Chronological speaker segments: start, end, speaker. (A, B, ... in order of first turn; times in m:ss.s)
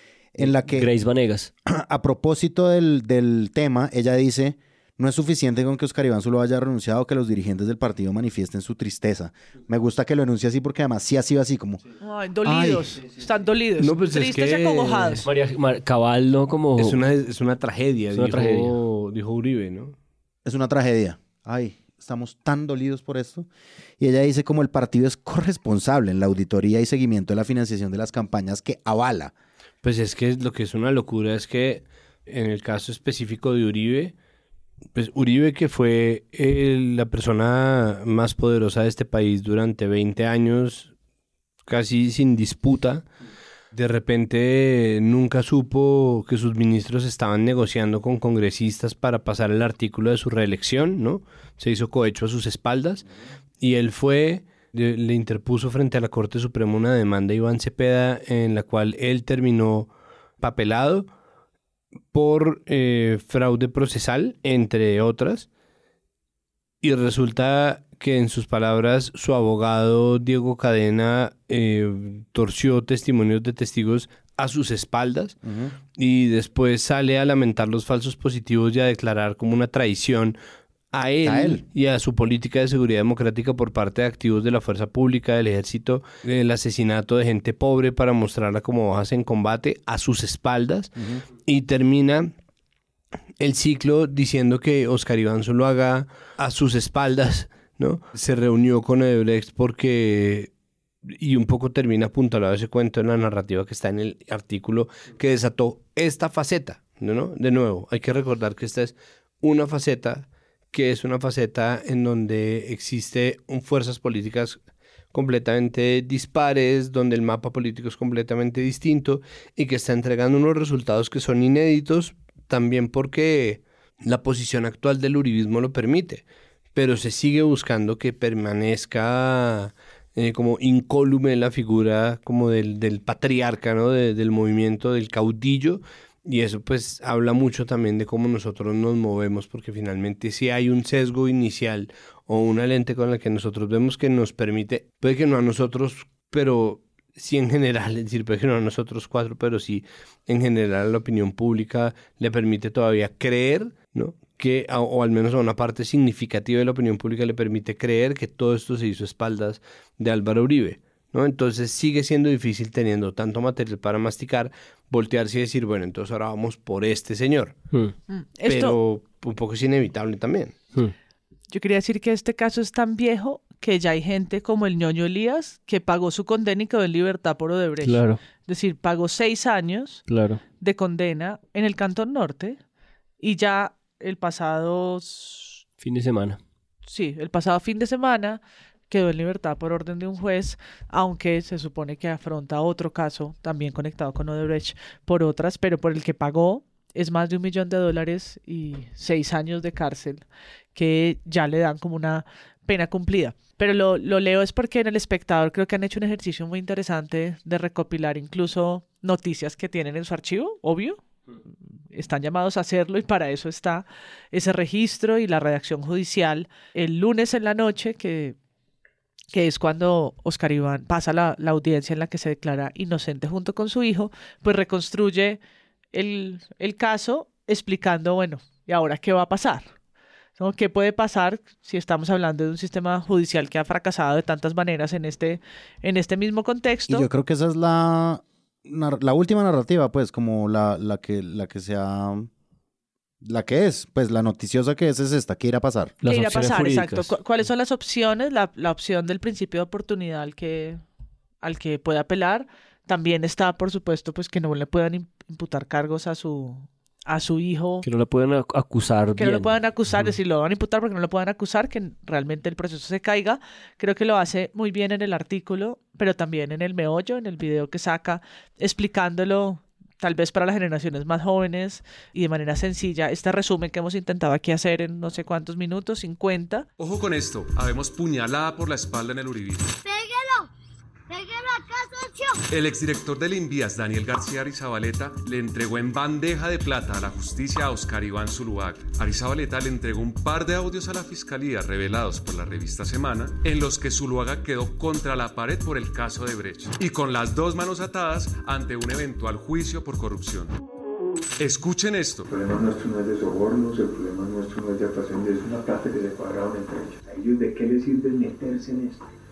0:00.4-0:00.9 A
0:00.4-0:01.5 B
0:01.6-0:11.8 A
0:12.0-0:15.2 C
0:12.4-0:12.9 A
0:13.8-0:15.2 D
0:15.2-0:17.0 B
0:16.8-0:19.9 D
0:18.1-0:18.8 B
0:20.4-0:23.5 A
0:24.0-0:29.3 A
0:29.8-0:34.1 D
0:34.9-0:40.9 D
0:41.7-0:43.0 D
0:43.7-0:53.0 D
0:53.6-1:01.1 D
1:02.1-1:05.5 D
1:06.8-1:15.4 D
1:15.4-1:15.7 A
1:16.0-1:20.4 D
1:20.9-1:30.9 D
1:21.2-1:21.6 A
1:31.0-1:31.2 A
1:31.4-1:32.3 D
1:33.4-1:40.5 D
1:41.1-1:54.6 D
1:55.1-2:06.2 D
2:06.7-2:47.5 D
2:48.1-2:48.8 C
2:48.5-2:50.6 D
2:51.5-3:00.0 C
2:57.8-2:58.2 B
3:00.1-3:00.4 B
3:00.6-3:02.6 C
3:03.2-3:05.6 C
3:05.8-3:06.4 B
3:06.8-3:31.0 C
3:31.9-3:38.4 C
3:39.3-3:45.4 C
3:45.9-3:49.7 C
3:50.4-3:57.0 C
3:56.9-4:02.3 A
4:03.2-4:05.9 A
4:06.0-4:10.8 C
4:06.0-4:07.2 B
4:11.4-4:17.8 C
4:17.8-4:20.0 B
4:19.2-4:36.6 C
4:36.8-4:39.8 E
4:39.8-4:40.5 F
4:41.1-4:42.4 F
4:42.5-5:00.6 E
5:01.4-5:02.3 E
5:02.3-5:09.0 G